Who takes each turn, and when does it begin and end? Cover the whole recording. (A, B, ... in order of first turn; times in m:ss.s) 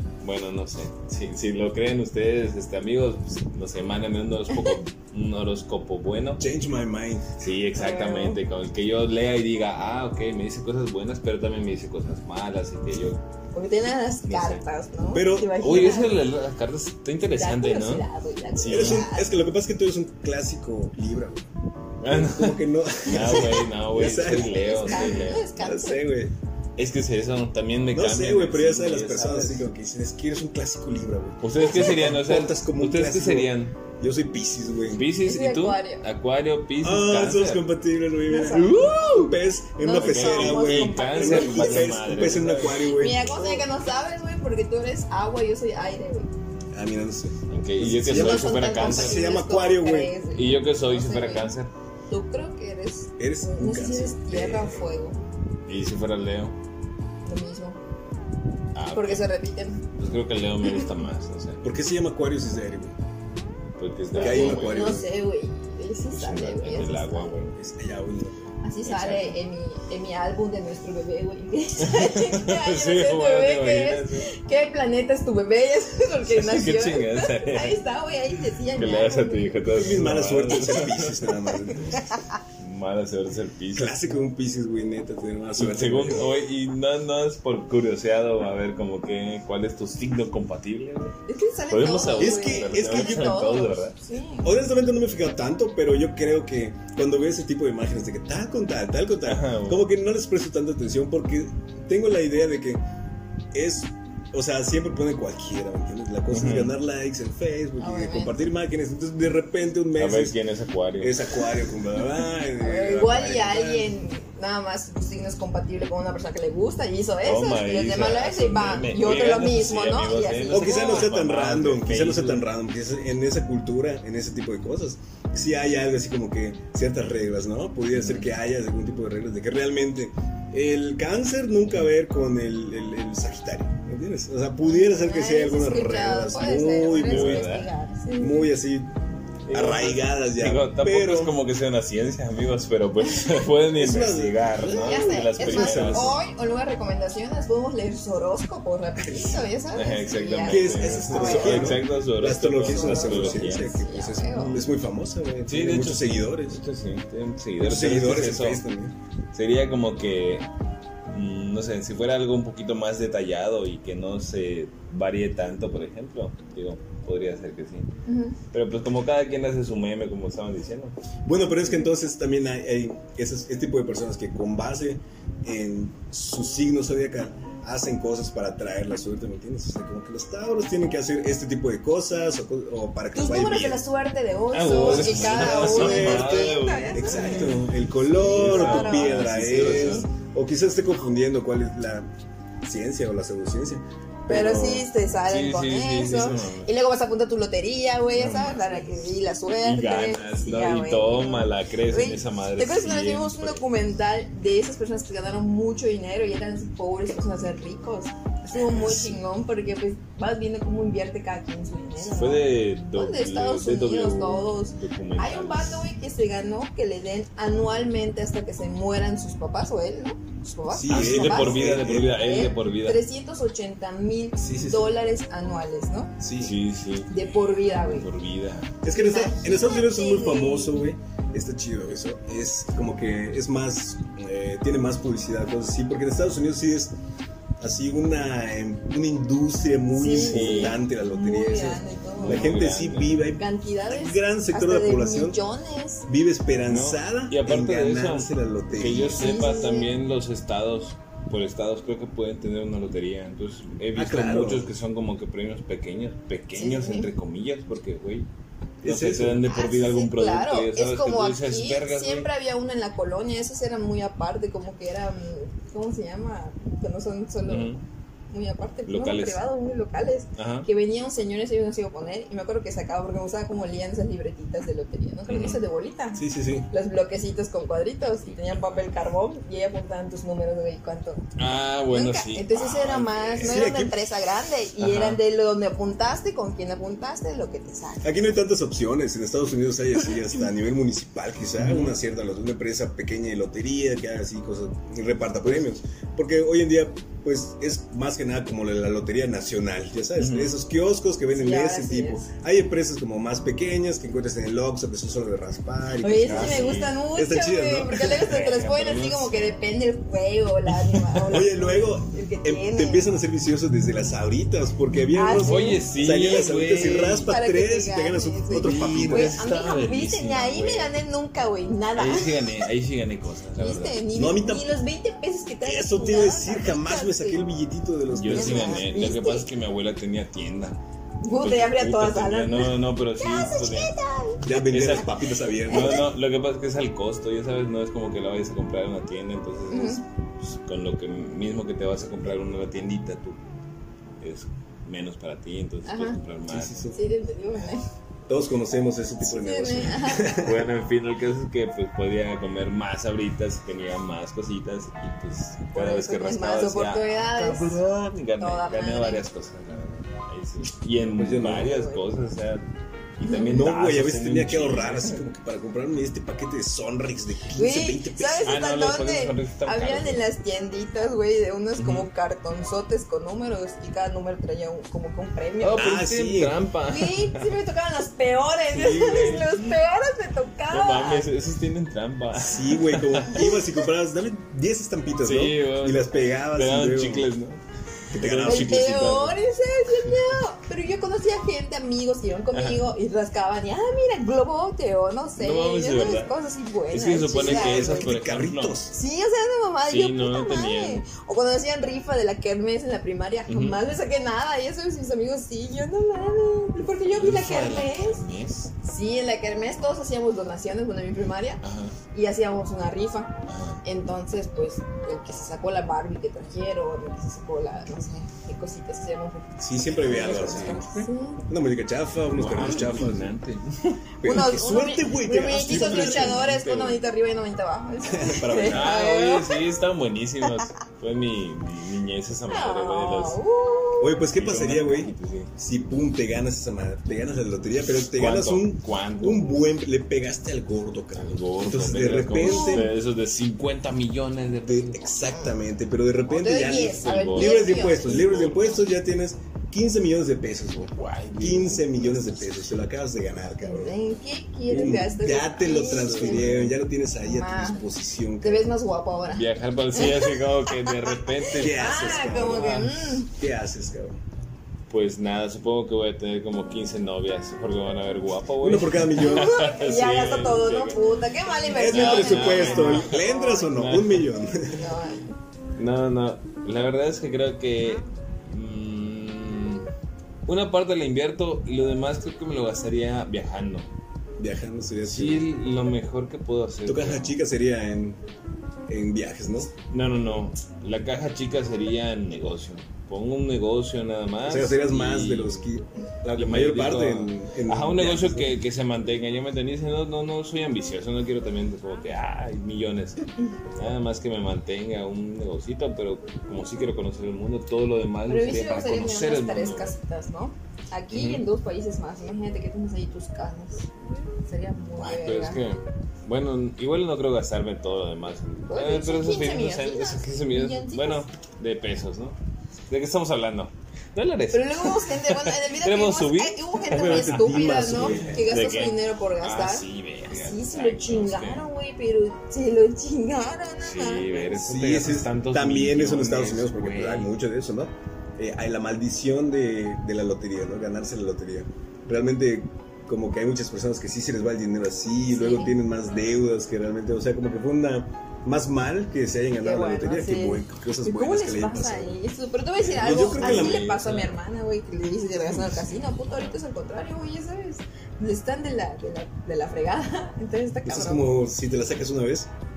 0:00.2-0:06.5 A
0:04.5-0:04.8 B
0:06.4-0:07.3 C
0:07.4-0:13.2 A
0:07.8-0:08.4 B
0:13.5-0:16.2 B
0:14.3-0:14.6 A
0:15.1-0:16.0 C
0:15.6-0:18.1 A
0:17.4-0:19.3 B
0:18.6-0:19.1 A
0:18.6-0:21.5 C
0:22.0-0:25.5 A
0:22.0-0:26.3 C
0:24.3-0:26.0 B
0:26.8-0:29.7 A
0:27.9-0:35.0 C
0:31.4-0:33.7 A
0:34.9-0:37.6 A
0:35.2-0:36.0 B
0:36.8-0:43.7 C
0:38.3-0:42.1 B
0:40.0-0:43.0 A
0:42.9-0:46.3 B
0:46.7-0:50.1 C
0:47.5-0:49.3 A
0:48.1-0:51.6 B
0:50.4-0:51.7 A
0:52.1-0:55.2 B
0:53.2-0:54.8 C
0:55.7-0:56.6 A
0:57.2-0:57.8 B
0:58.8-0:59.3 A
0:58.9-0:59.8 B
1:00.0-1:01.7 A
1:01.6-1:03.0 C
1:03.8-1:05.0 A
1:04.1-1:07.5 B
1:04.2-1:05.1 C
1:06.1-1:07.6 A
1:07.6-1:08.5 C
1:08.6-1:19.7 B
1:08.8-1:09.4 A
1:11.8-1:14.3 A
1:16.2-1:17.8 A
1:18.7-1:21.9 A
1:19.7-1:22.0 C
1:22.0-1:22.2 B
1:22.6-1:24.0 A
1:23.8-1:26.3 C
1:25.6-1:31.2 A
1:31.3-1:34.6 B
1:31.7-1:34.0 A
1:32.2-1:33.4 C
1:34.4-1:42.8 C
1:39.2-1:39.9 A
1:43.5-1:50.4 C
1:46.3-1:46.8 A
1:47.8-1:48.3 B
1:50.0-1:51.2 A
1:51.0-1:53.9 C
1:52.6-2:01.1 B
1:57.2-2:02.5 A
2:00.5-2:17.5 C
2:07.9-2:08.3 A
2:14.7-2:18.5 B
2:17.1-2:17.7 A
2:18.1-2:18.9 C
2:19.5-2:26.2 A
2:19.5-2:21.4 C
2:23.8-2:26.2 C
2:24.7-2:31.9 B
2:29.0-2:29.5 C
2:29.7-2:34.7 A
2:30.4-2:36.6 C
2:32.6-2:34.6 B
2:35.5-2:38.6 A
2:37.6-2:39.0 C
2:39.3-2:40.5 A
2:41.1-2:47.9 A
2:48.1-2:48.4 B
2:48.5-2:50.9 A
2:51.3-3:03.8 C
3:03.1-3:07.5 B
3:04.5-3:10.1 A
3:04.8-3:12.1 C
3:08.1-3:10.1 B
3:12.6-3:13.8 C
3:14.3-3:16.7 A
3:14.3-3:46.2 B
3:18.1-3:18.9 A
3:19.6-3:23.7 A
3:28.6-3:29.2 A
3:32.0-3:35.8 A
3:40.7-3:42.4 C
3:40.9-3:43.0 A
3:44.4-3:45.0 C
3:46.2-3:46.6 C
3:46.4-3:48.8 A
3:47.1-3:48.1 B
3:48.8-3:57.0 C
3:48.9-3:50.9 B
3:57.6-4:05.4 C
4:00.0-4:02.5 B
4:00.1-4:00.8 A
4:02.2-4:03.2 A
4:03.4-4:06.1 B
4:06.1-4:09.3 C
4:06.7-4:18.3 A
4:09.1-4:09.9 B
4:14.0-4:14.7 C
4:16.6-4:17.1 B
4:18.8-4:19.4 C
4:18.8-4:22.3 A
4:19.4-4:27.7 B
4:27.4-4:27.8 A
4:28.3-4:41.3 B
4:28.9-4:29.4 A
4:30.4-4:30.7 A
4:35.3-4:35.6 A
4:36.2-4:36.7 C
4:38.3-4:39.1 A
4:41.4-4:43.7 A
4:41.9-4:48.4 B
4:43.4-4:44.0 C
4:44.8-4:45.2 A
4:48.0-5:08.2 C
4:51.6-4:52.0 A
5:00.2-5:00.5 A
5:01.3-5:02.2 B
5:06.0-5:13.1 B
5:06.2-5:07.0 A
5:08.0-5:09.6 A
5:10.9-5:11.4 A
5:11.3-5:19.5 C
5:15.1-5:15.9 B
5:15.3-5:17.3 A
5:17.3-5:22.7 B
5:18.5-5:20.9 A
5:22.0-5:24.0 A
5:23.6-5:27.4 B
5:24.1-5:24.7 C
5:25.6-5:28.9 C
5:28.1-5:30.8 A
5:28.3-5:29.5 B
5:31.2-5:34.4 B
5:31.3-5:33.9 A
5:34.4-5:36.1 C
5:34.4-5:35.1 A
5:35.6-5:43.4 A
5:35.7-5:36.0 B
5:39.7-5:40.0 B
5:44.2-5:46.9 A
5:45.8-5:46.2 B
5:46.5-5:47.0 C
5:46.9-5:47.8 B
5:48.3-5:50.6 C
5:49.2-5:50.4 B
5:50.3-6:02.6 A
5:55.7-5:57.8 B
5:58.4-5:59.2 B
6:01.2-6:01.8 C
6:01.6-6:02.0 B
6:03.2-6:05.2 A
6:03.2-6:03.7 B
6:03.4-6:08.6 C
6:07.6-6:16.0 B
6:08.4-6:10.2 A
6:11.8-6:12.1 A
6:15.6-6:17.6 A
6:15.7-6:16.6 C
6:16.9-6:21.3 B
6:18.7-6:19.8 A
6:20.7-6:23.4 A
6:22.4-6:27.3 C
6:23.3-6:23.6 B
6:25.2-6:27.6 A
6:28.1-6:29.1 C
6:28.1-6:29.4 A
6:28.4-6:38.1 B
6:32.5-6:32.8 A
6:35.4-6:36.3 A
6:36.9-6:38.8 A
6:37.4-6:38.9 C
6:38.9-6:48.2 B
6:39.9-6:41.0 A
6:43.5-6:43.8 A
6:47.1-6:48.7 A
6:48.8-7:01.4 B
6:51.6-6:52.0 A
6:53.5-6:53.8 A
6:59.6-7:03.3 C
6:59.8-7:01.0 A
7:02.3-7:04.0 A
7:04.2-7:06.5 C
7:04.2-7:09.6 B
7:05.4-7:07.0 A
7:08.1-7:08.9 C
7:08.6-7:13.4 A
7:12.5-7:14.2 B
7:14.0-7:22.9 C
7:14.4-7:15.5 A
7:17.9-7:19.5 A
7:21.2-7:25.1 A
7:22.4-7:22.9 B
7:24.7-7:34.0 C
7:25.3-7:25.6 B
7:26.3-7:28.3 B
7:26.9-7:28.9 A
7:30.8-7:32.8 A
7:33.6-7:36.6 B
7:34.7-7:38.7 C
7:35.7-7:36.8 A
7:37.2-7:37.8 B
7:38.4-7:43.3 B
7:39.3-7:42.9 A
7:41.5-7:44.2 C
7:44.9-7:51.0 A
7:48.6-7:49.5 C
7:49.2-7:53.9 B
7:51.7-7:54.3 A
7:51.7-7:54.9 C
7:54.7-7:55.4 B
7:55.8-7:59.9 A
8:00.5-8:03.9 A
8:04.4-8:05.5 C
8:05.0-8:07.4 A
8:06.9-8:08.2 C
8:08.9-8:09.7 C
8:09.8-8:15.7 A
8:14.4-8:18.6 C
8:16.3-8:23.2 A
8:23.8-8:30.0 A
8:28.3-8:33.9 B
8:31.1-8:31.4 A
8:34.4-8:35.6 B
8:35.0-8:42.4 A
8:38.7-8:41.2 B
8:42.9-8:51.7 A
8:44.5-8:54.6 B
8:46.9-8:48.4 C
8:53.8-8:57.3 A
8:54.4-9:12.2 C
9:05.3-9:05.8 B
9:09.6-9:21.4 B
9:12.8-9:13.9 C
9:12.9-9:14.4 A
9:15.5-9:16.6 A
9:20.8-9:22.5 C